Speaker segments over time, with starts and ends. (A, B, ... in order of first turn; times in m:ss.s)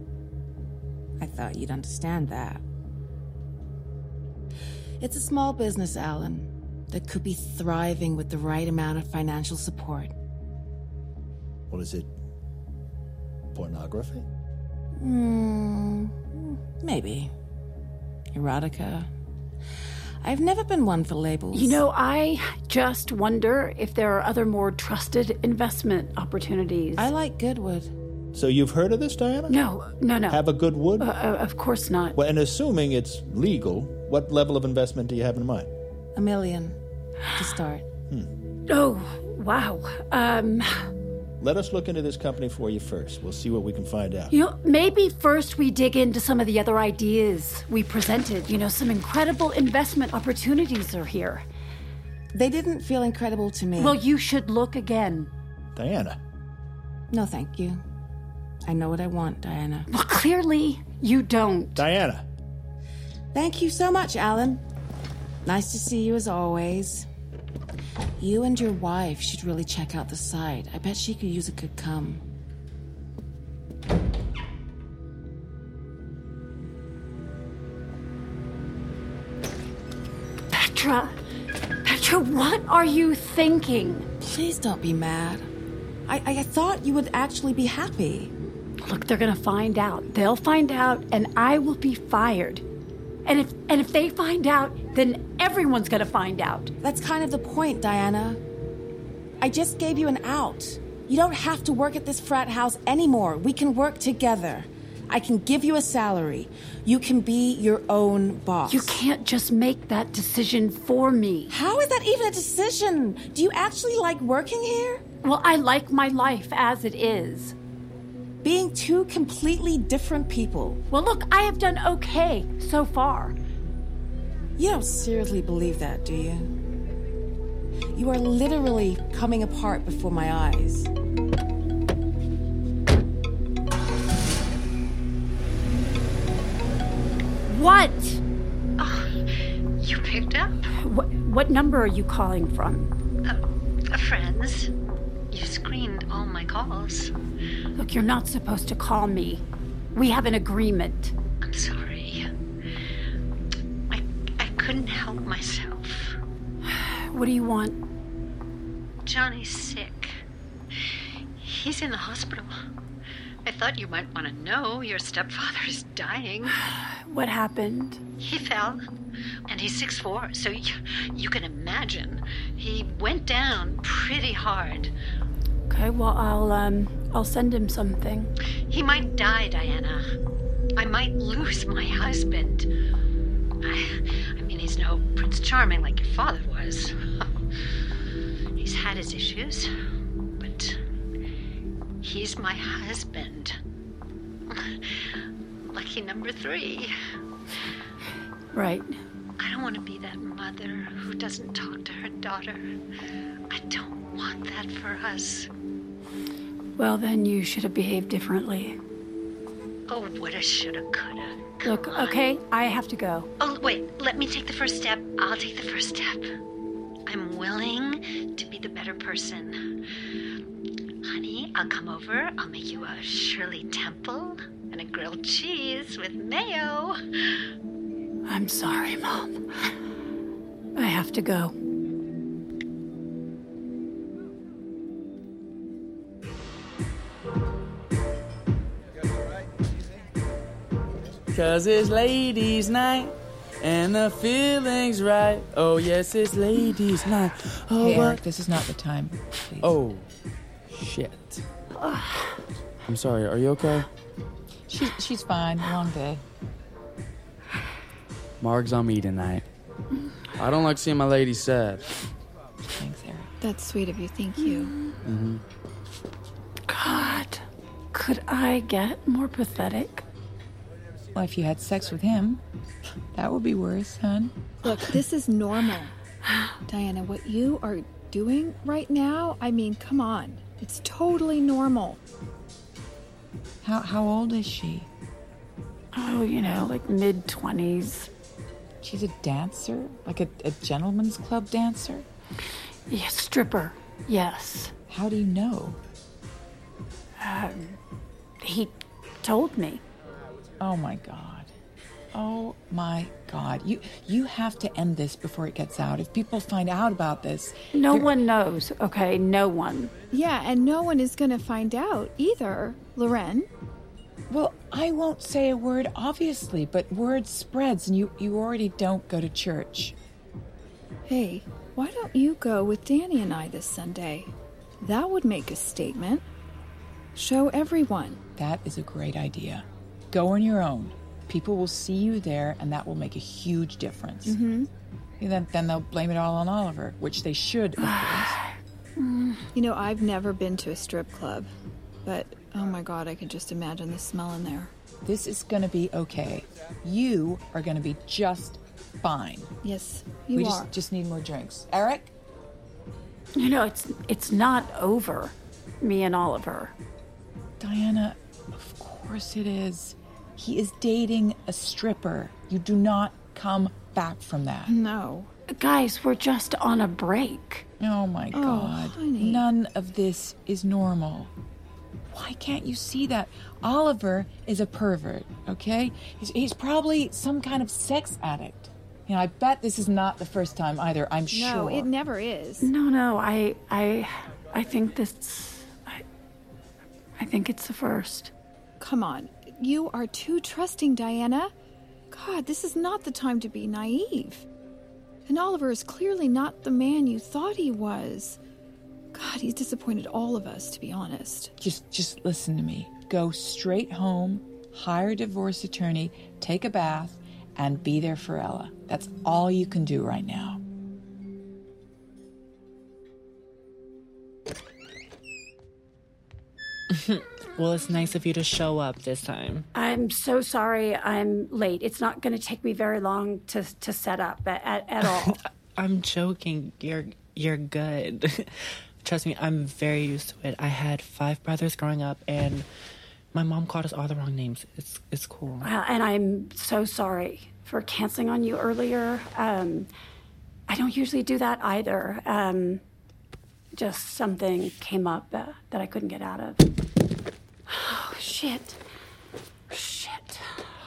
0:01.2-0:02.6 A
0:05.0-0:10.1 A
0:11.7-0:12.1 B
0:13.5-0:14.2 B
0:15.0-0:17.3 A
0:18.3-0:19.1 A
0:20.2-0:21.8 A
0:21.5-0:27.1 C
0:27.0-0:27.9 A
0:28.3-0:29.6 B
0:29.5-0:30.4 C
0:30.3-0:31.1 B
0:31.0-0:32.2 C
0:32.2-0:35.7 B
0:36.2-0:36.8 A
0:37.4-0:37.8 A
0:38.7-0:40.9 C
0:41.4-0:44.3 B
0:44.3-0:51.4 C
0:52.3-0:54.0 A
0:53.8-0:55.3 C
0:55.8-0:56.2 B
0:57.1-0:57.8 A
0:58.7-0:59.9 A
0:59.9-1:01.8 C
1:01.8-1:02.2 B
1:03.3-1:04.6 A
1:05.4-1:07.1 A
1:08.2-1:12.2 A
1:20.5-1:21.2 C
1:21.8-1:24.1 C
1:24.2-1:25.5 A
1:26.1-1:28.3 A
1:28.8-1:32.6 C
1:33.3-1:36.7 C
1:36.8-1:38.4 A
1:39.4-1:49.0 A
1:48.7-1:51.5 C
1:51.5-1:55.0 A
1:55.2-1:57.6 C
1:58.4-2:00.8 A
2:00.9-2:03.4 C
2:04.6-2:06.5 A
2:07.9-2:10.9 A
2:17.5-2:18.2 C
2:18.8-2:20.7 D
2:20.8-2:22.9 C
2:23.2-2:24.7 D
2:25.3-2:27.1 D
2:27.8-2:31.2 C
2:31.4-2:32.3 D
2:33.9-2:36.2 D
2:36.7-2:37.8 C
2:39.0-2:40.2 D
2:41.4-2:42.6 D
2:43.4-2:46.6 D
2:46.7-2:48.0 C
2:48.2-2:48.8 D
2:49.5-2:54.9 D
2:55.7-2:58.3 C
2:58.7-3:00.1 D
3:00.8-3:02.7 D
3:03.6-3:07.0 D
3:08.6-3:09.7 D
3:10.4-3:10.8 D
3:12.0-3:13.6 D
3:14.5-3:16.9 D
3:18.5-3:18.9 C
3:19.4-3:22.7 D
3:23.5-3:25.5 D
3:26.8-3:28.8 C
3:29.9-3:32.2 D
3:31.6-3:33.3 C
3:33.4-3:36.3 D
3:37.1-3:39.6 D
3:41.0-3:47.0 D
3:48.3-3:49.4 C
3:50.8-3:51.6 C
4:01.3-4:08.2 E
4:07.8-4:09.7 F
4:09.6-4:10.1 E
4:10.7-4:11.4 E
4:11.8-4:12.4 C
4:12.9-4:13.9 E
4:14.7-4:16.2 F
4:18.4-4:19.4 E
4:20.4-4:21.9 E
4:22.8-4:23.3 F
4:23.4-4:24.7 G
4:24.4-4:25.0 C
4:25.0-4:25.4 E
4:26.7-4:30.0 C
4:31.2-4:32.4 F
4:33.1-4:35.0 F
4:34.6-4:35.9 G
4:36.7-4:42.0 G
4:43.6-4:44.9 F
4:45.9-4:48.1 C
4:48.8-4:52.0 F
4:52.9-4:54.7 C
4:54.9-4:55.8 F
4:57.2-4:57.8 C
4:58.4-4:59.8 C
5:00.6-5:01.5 F
5:02.1-5:08.1 F
5:07.7-5:09.9 C
5:10.1-5:13.5 G
5:14.3-5:19.9 F
5:21.1-5:26.2 G
5:27.2-5:28.2 G
5:28.3-5:34.4 F
5:34.2-5:34.7 G
5:35.2-5:38.4 F
5:37.8-5:39.5 C
5:39.5-5:41.5 G
5:42.0-5:44.7 G
5:45.0-5:49.5 F
5:49.6-5:50.7 G
5:50.4-5:52.1 F
5:53.4-5:56.7 C
5:57.6-6:04.8 F
6:04.7-6:05.3 G
6:05.6-6:07.7 C
6:07.8-6:11.3 F
6:08.3-6:09.5 G
6:12.1-6:21.9 F
6:21.3-6:22.7 G
6:22.6-6:26.0 C
6:27.2-6:28.3 C
6:28.8-6:31.5 G
6:32.1-6:34.4 G
6:35.3-6:38.4 G
6:39.1-6:41.5 G
6:41.6-6:50.6 F
6:56.9-6:59.7 H
6:59.8-7:05.4 C
7:05.0-7:12.7 H
7:13.3-7:15.7 H
7:15.6-7:19.9 C
7:20.7-7:22.8 C
7:23.8-7:26.7 C
7:27.7-7:28.8 C
7:29.7-7:30.4 C